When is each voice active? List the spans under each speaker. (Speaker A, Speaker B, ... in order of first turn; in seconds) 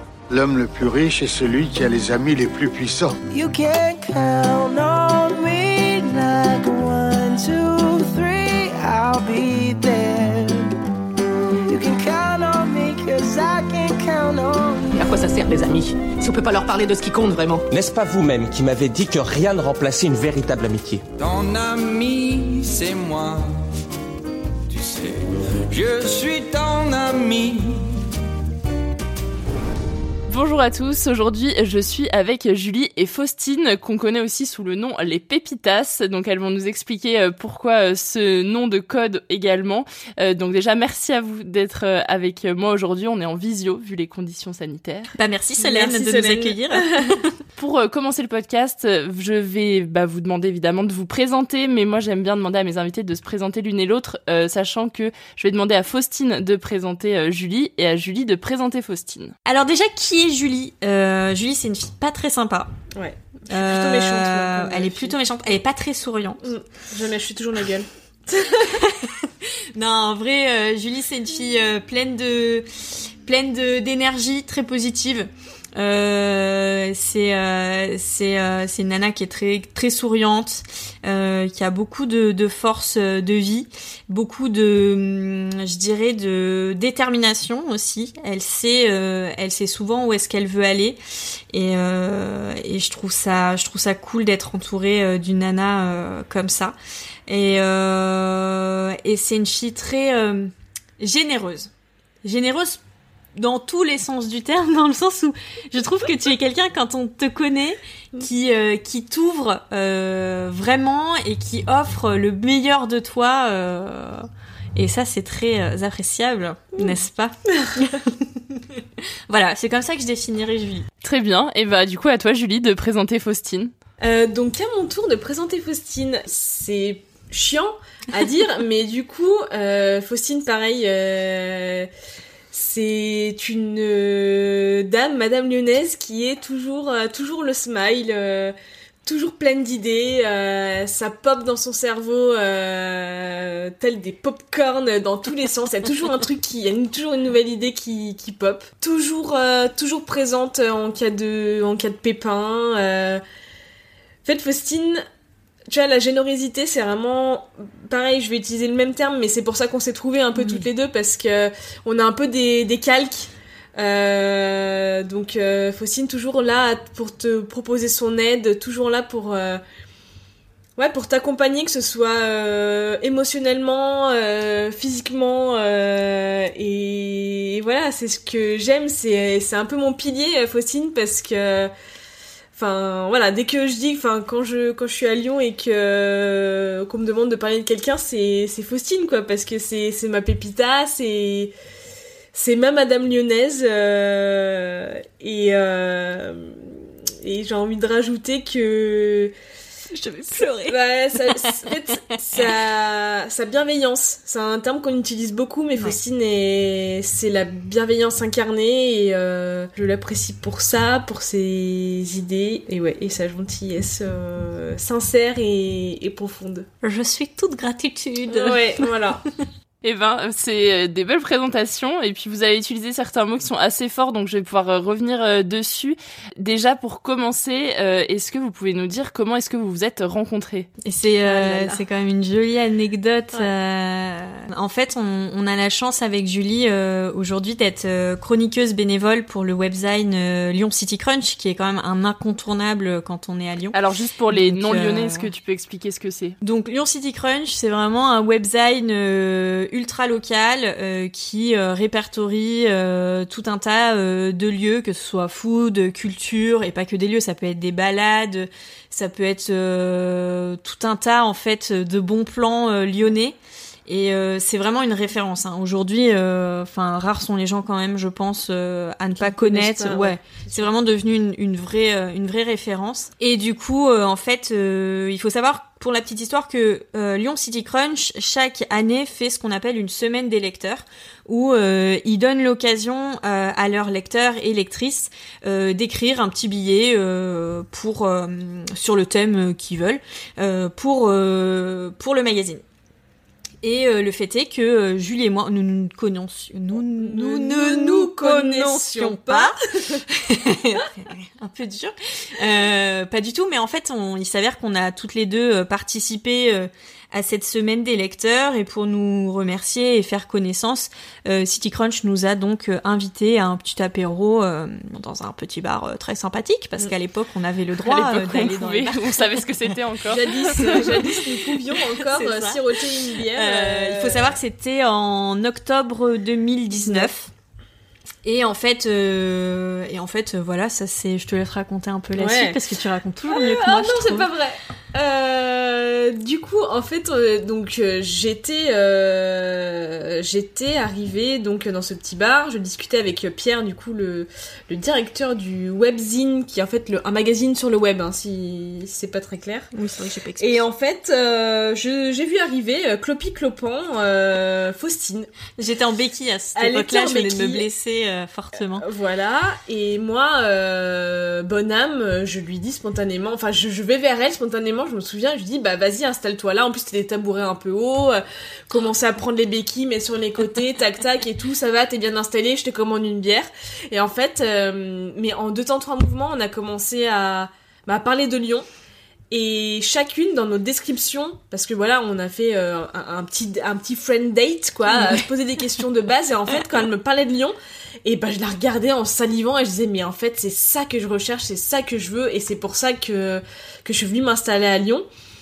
Speaker A: 0.3-3.1
Speaker B: 3.3-10.7, 11.6-14.9
Speaker C: 14.9-17.6
Speaker D: 17.7-21.0
Speaker E: 21.1-23.5, 24.7-27.9
Speaker F: 30.3-45.1, 47.6-59.3, 121.0-123.7, 219.8-230.7, 243.7-246.3, 317.8-320.8
Speaker G: 45.1-47.4, 59.5-62.7, 63.5-66.4, 68.6-91.0, 91.5-101.7, 102.2-102.8, 103.3-118.6, 119.3-120.9, 160.4-160.7, 199.9-201.5, 202.1-202.5, 216.8-218.9, 230.8-245.3, 246.4-292.6, 293.6-319.4, 320.5-321.2, 321.8-327.3, 328.2-334.3, 349.7-350.6, 355.6-358.8, 384.9-385.2
Speaker H: 45.6-47.1, 63.0-65.2, 66.4-68.8, 124.0-131.9, 132.5-138.5, 139.0-153.2, 154.2-155.0, 155.7-169.6, 170.8-181.7, 182.5-191.5, 192.3-199.3, 200.6-216.7, 218.3-219.2, 231.3-231.8, 269.2-270.7, 297.0-300.0, 320.1-324.4, 326.8-327.1, 332.1-332.6, 333.3-349.7, 350.4-355.3, 356.6-357.6, 358.8-378.6, 379.3-395.1